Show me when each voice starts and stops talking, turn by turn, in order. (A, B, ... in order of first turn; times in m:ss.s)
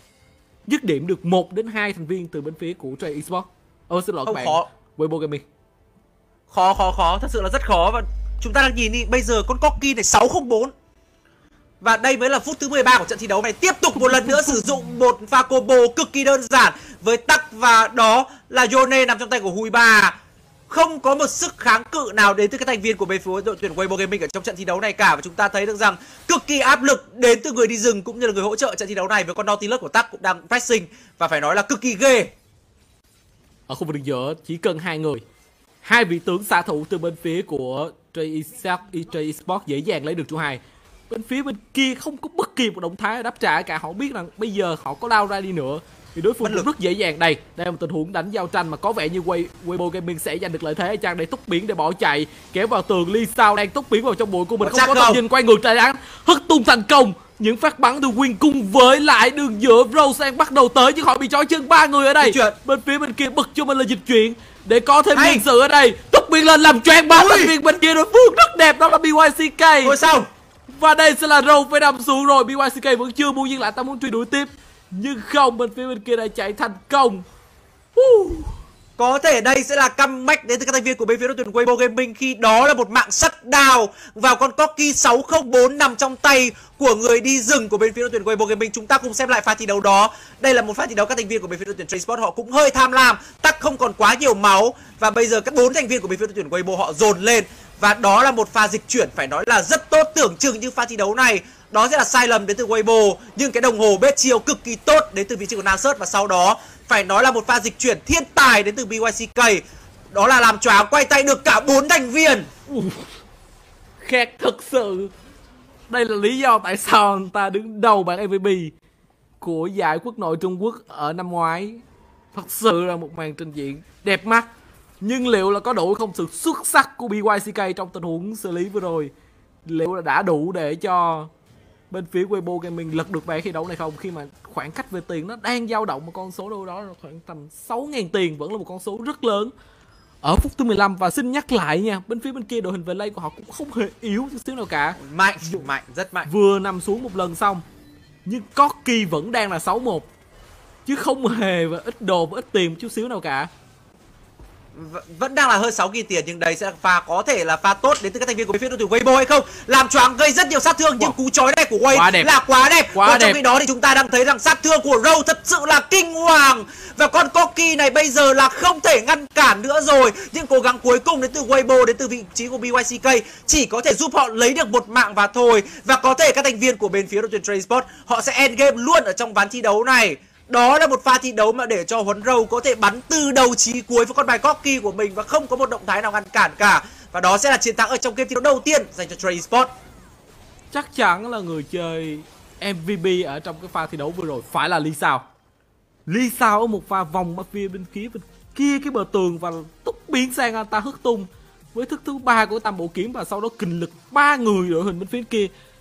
0:00.7-0:05.4 A
0:04.2-0:04.6 B
0:06.5-0:10.7 B
0:11.8-0:20.2 B
0:13.9-0:14.6 A
0:20.7-0:32.3 B
0:33.7-0:35.2 A
0:35.8-1:10.0 A
0:54.6-0:55.2 B
1:02.2-1:02.6 B
1:05.1-1:05.4 B
1:07.1-1:07.5 B
1:09.8-1:10.3 B
1:10.7-1:17.2 A
1:18.0-1:18.5 A
1:19.0-1:52.5 B
1:52.7-1:53.1 A
1:54.0-1:55.1 A
1:55.9-1:58.7 A
1:59.4-2:04.5 A
2:05.0-2:09.1 A
2:09.6-2:11.3 A
2:11.9-2:19.5 A
2:20.2-2:25.6 A
2:25.0-2:26.3 B
2:26.2-2:27.6 A
2:28.2-2:30.1 A
2:30.8-2:33.5 A
2:34.7-3:09.7 B
2:41.9-2:42.3 A
2:42.9-2:43.4 A
3:10.7-3:15.2 A
3:16.1-3:25.5 A